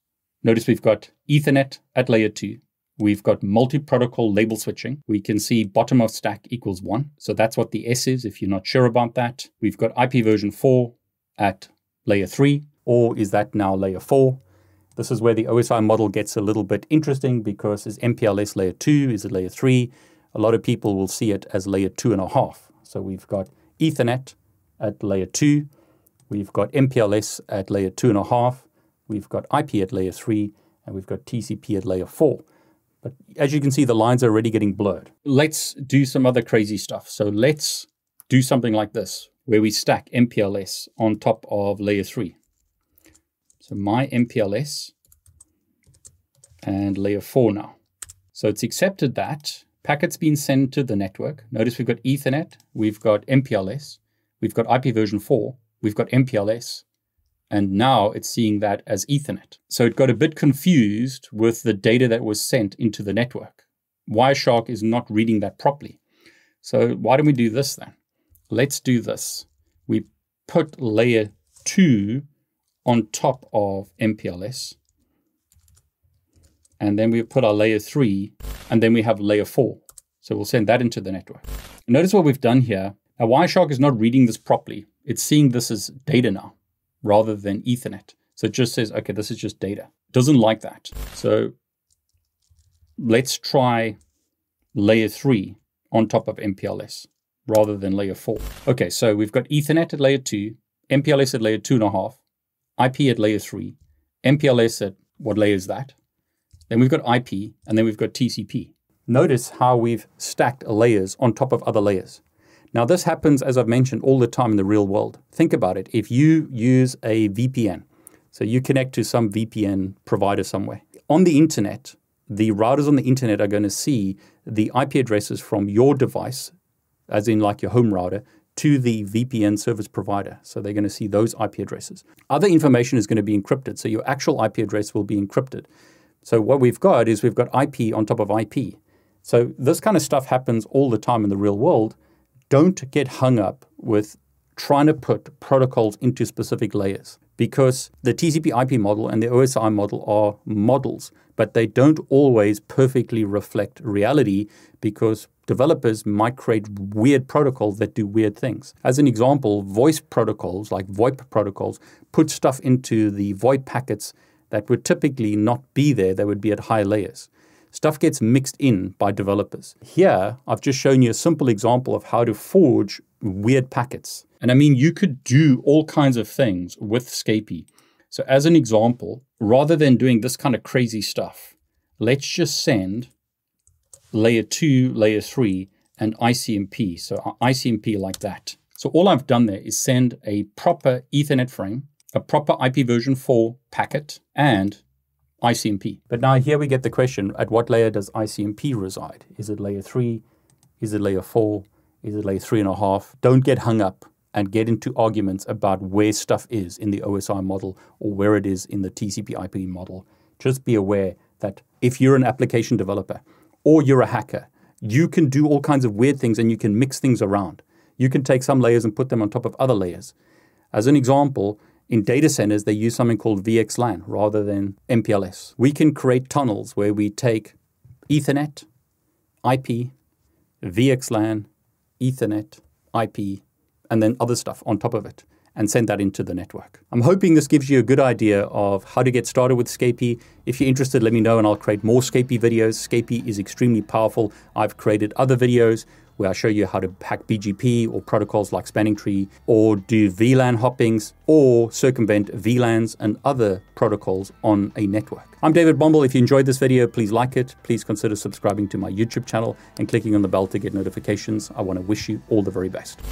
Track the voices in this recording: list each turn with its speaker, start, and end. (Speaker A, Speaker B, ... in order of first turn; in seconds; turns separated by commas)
Speaker A: 0.4-14.4, Speaker A: 15.0-25.7, Speaker A: 26.3-32.5, Speaker A: 33.0-42.4, Speaker A: 43.6-44.9, Speaker A: 46.6-47.8, Speaker A: 48.3-56.9, Speaker A: 57.5-66.0, Speaker A: 66.6-67.9, Speaker A: 68.5-72.2, Speaker A: 72.8-74.8, Speaker A: 76.8-91.5, Speaker A: 93.0-94.0, Speaker A: 94.7-102.2, Speaker A: 102.8-106.0, Speaker A: 106.7-112.2, Speaker A: 112.7-126.5, Speaker A: 127.1-135.7, Speaker A: 136.2-142.0, Speaker A: 142.5-183.1, Speaker A: 184.1-194.8, Speaker A: 195.4-200.2, Speaker A: 200.8-220.1, Speaker A: 220.7-227.6, Speaker A: 228.1-228.7, Speaker A: 229.4-229.9, Speaker A: 230.6-231.5, Speaker A: 232.0-263.0